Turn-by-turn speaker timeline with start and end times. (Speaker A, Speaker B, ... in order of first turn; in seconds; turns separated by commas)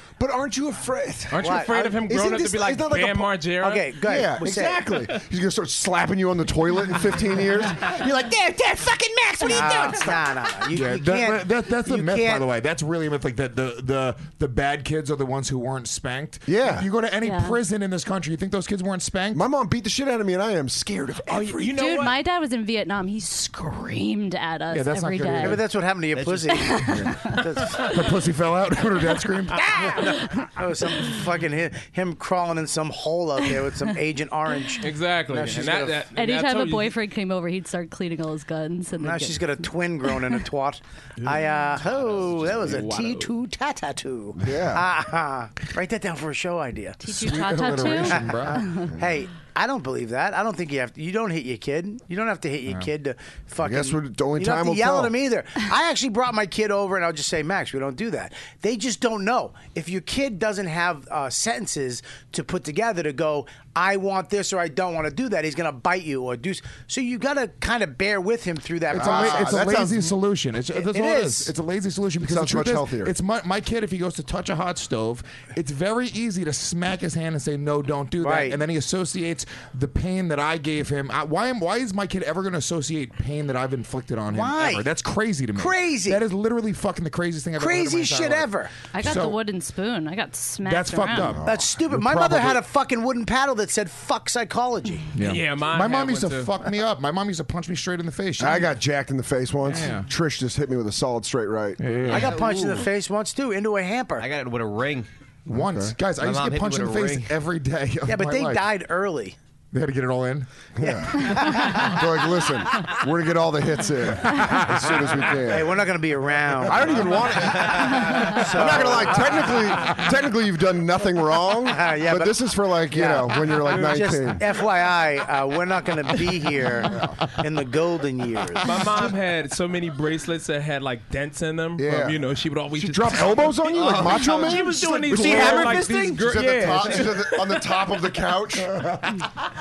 Speaker A: 0.2-3.4, Speaker B: 1.3-4.0, Speaker C: 1.4-2.0, Speaker C: 3.6-5.0, Speaker A: 4.0-10.2, Speaker C: 9.4-12.5, Speaker D: 10.7-19.4, Speaker A: 16.5-16.9, Speaker E: 17.2-17.6, Speaker A: 19.3-21.8, Speaker B: 21.3-22.2, Speaker E: 21.7-25.6, Speaker D: 24.7-25.6, Speaker C: 25.4-27.9, Speaker F: 26.1-26.5, Speaker E: 26.5-27.5, Speaker D: 27.8-29.6, Speaker C: 29.6-36.1, Speaker E: 30.0-30.5, Speaker B: 34.8-37.0, Speaker E: 36.1-39.5, Speaker C: 39.0-47.0, Speaker B: 41.3-43.3, Speaker A: 44.4-44.9, Speaker E: 47.0-49.0, Speaker D: 47.1-48.7, Speaker C: 48.0-69.8, Speaker A: 53.6-55.1, Speaker D: 68.9-89.4, Speaker A: 68.9-70.2, Speaker C: 70.7-71.5, Speaker A: 72.2-73.1, Speaker C: 78.2-78.6, Speaker C: 84.3-84.9, Speaker C: 85.5-86.2, Speaker C: 87.6-88.7, Speaker E: 88.9-91.4, Speaker D: 90.6-92.6, Speaker A: 91.1-91.8, Speaker C: 91.4-95.1, Speaker D: 95.2-98.7, Speaker B: 95.2-96.5, Speaker A: 98.4-102.0, Speaker D: 99.7-100.1, Speaker D: 101.8-102.3, Speaker F: 102.1-102.9, Speaker C: 102.1-104.3, Speaker F: 104.2-105.1, Speaker D: 105.5-108.7, Speaker A: 105.5-106.0, Speaker F: 106.2-107.3, Speaker C: 108.1-109.4, Speaker D: 109.7-110.5, Speaker A: 110.8-115.8, Speaker C: 111.3-111.9, Speaker D: 114.2-115.2, Speaker C: 115.4-119.6, Speaker A: 116.6-124.4, Speaker C: 121.7-129.0, Speaker D: 126.9-127.3, Speaker B: 128.6-137.6, Speaker A: 131.8-132.2, Speaker A: 132.8-138.8, Speaker D: 133.1-133.5, Speaker F: 133.8-134.3, Speaker D: 134.6-135.8, Speaker C: 135.1-136.1